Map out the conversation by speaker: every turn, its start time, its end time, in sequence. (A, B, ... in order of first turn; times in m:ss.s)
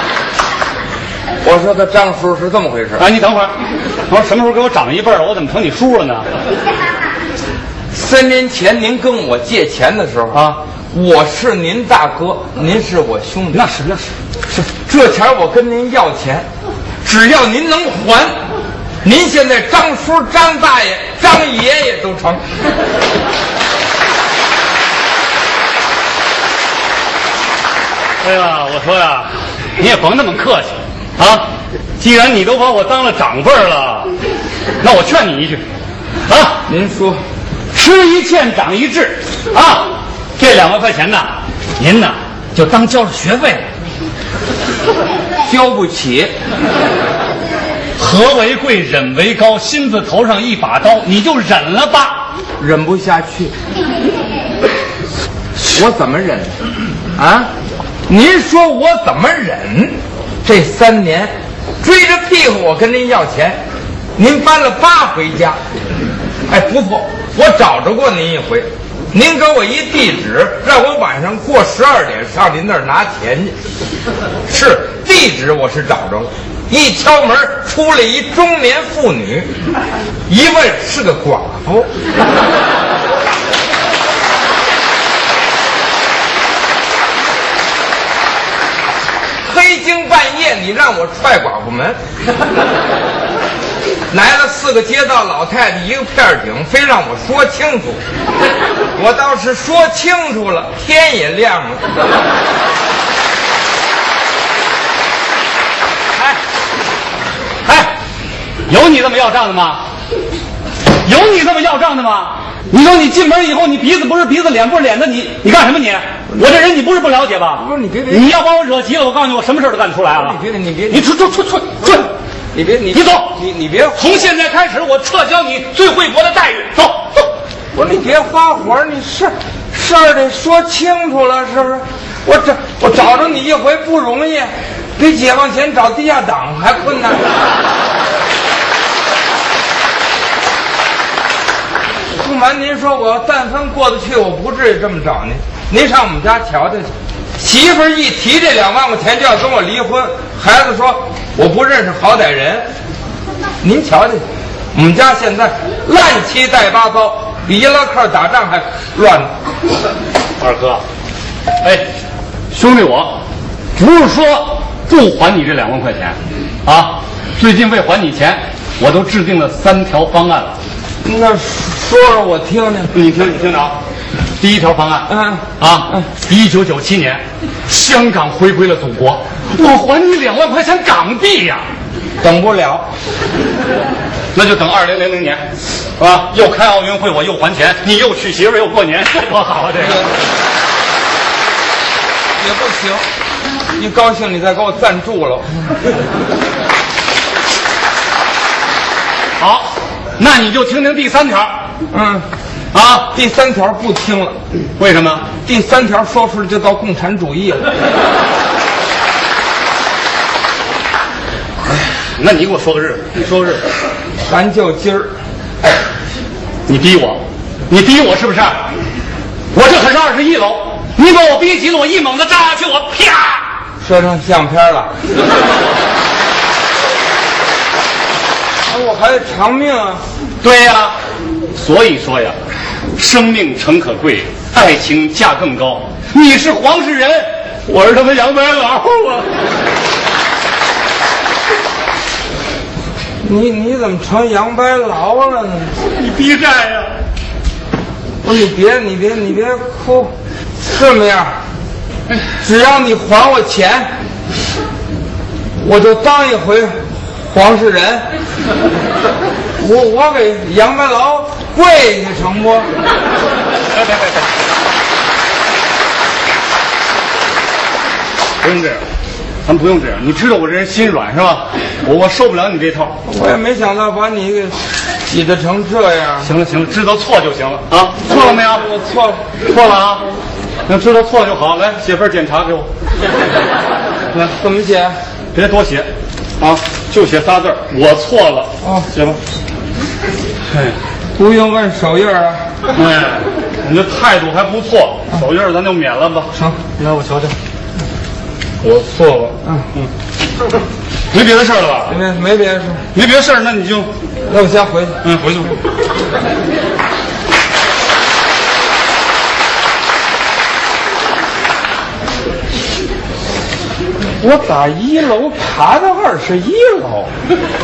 0:01.4-0:03.1 A
0:03.0-0:03.5 B
0:04.1-0:06.3 B
0:07.9-0:13.6 A
0:10.3-0:10.6 B
0:13.5-0:14.1 B
0:14.5-0:16.5 A
0:17.0-0:18.3 A
0:19.0-0:22.4 A
0:28.2-0:34.1 B
0:34.8-0:35.6 B
0:36.3-0:36.6 B
0:36.7-0:37.2 A
0:37.7-0:43.6 B
0:45.4-0:46.3 A
0:48.0-0:52.3 B
0:52.6-0:53.5 A
0:55.6-0:56.6 A
0:57.2-0:57.5 A
0:58.1-1:01.3 A
1:01.8-1:03.6 A
1:04.2-1:05.6 A
1:06.5-1:13.6 A
1:14.5-1:19.5 A
1:20.3-1:21.9 A
1:29.4-1:32.0 A
1:34.1-1:38.0 A
1:39.0-1:41.8 A
1:47.6-1:47.9 B
1:48.7-1:49.8 B
1:51.0-2:00.4 B
1:57.6-1:58.3 A
2:00.1-2:01.1 A
2:00.9-2:02.1 B
2:02.5-2:04.0 A
2:02.9-2:03.4 B
2:03.9-2:07.3 B
2:07.7-2:17.3 A
2:22.2-2:32.7 A
2:33.6-2:39.3 A
2:40.4-2:40.8 B
2:42.5-2:43.2 B
2:43.8-2:50.6 B
2:51.0-2:52.9 A
2:52.9-2:53.8 B
2:54.4-3:01.6 B
2:55.1-2:56.0 A
3:02.2-3:02.8 A
3:04.3-3:05.4 B
3:06.0-3:10.1 B
3:09.8-3:10.1 A
3:12.4-3:13.0 A
3:13.8-3:15.6 A
3:19.4-3:21.6 B
3:21.9-3:22.2 A
3:22.7-3:23.1 B
3:23.1-3:24.4 A
3:24.8-3:25.3 B
3:25.4-3:27.7 A
3:31.7-3:33.7 B
3:34.3-3:35.1 A
3:36.7-3:38.6 B
3:39.5-3:43.5 B
3:43.8-3:44.9 A
3:48.7-3:50.0 A
3:50.4-3:50.9 B
3:51.5-3:52.4 B
3:52.9-3:59.3 B
4:03.2-4:05.8 A
4:05.8-4:06.9 B
4:08.2-4:10.1 A
4:10.6-4:11.4 A
4:12.4-4:13.9 A
4:15.6-4:18.1 A
4:19.6-4:22.7 A
4:28.4-4:28.8 B
4:29.4-4:33.0 B
4:33.0-4:36.3 A
4:36.2-4:38.6 B
4:38.4-4:39.2 A
4:39.5-4:40.1 B
4:40.7-4:42.7 B
4:44.1-4:44.9 A
4:45.3-4:49.2 B
4:48.6-4:48.9 A
4:50.5-4:50.8 B
4:51.2-4:52.4 A
4:52.7-4:57.3 B
4:56.3-4:56.6 A
4:58.6-4:59.9 B
5:01.1-5:02.0 B
5:01.9-5:02.8 A
5:02.9-5:03.9 B
5:04.3-5:05.0 A
5:05.0-5:05.6 B
5:14.2-5:17.1 A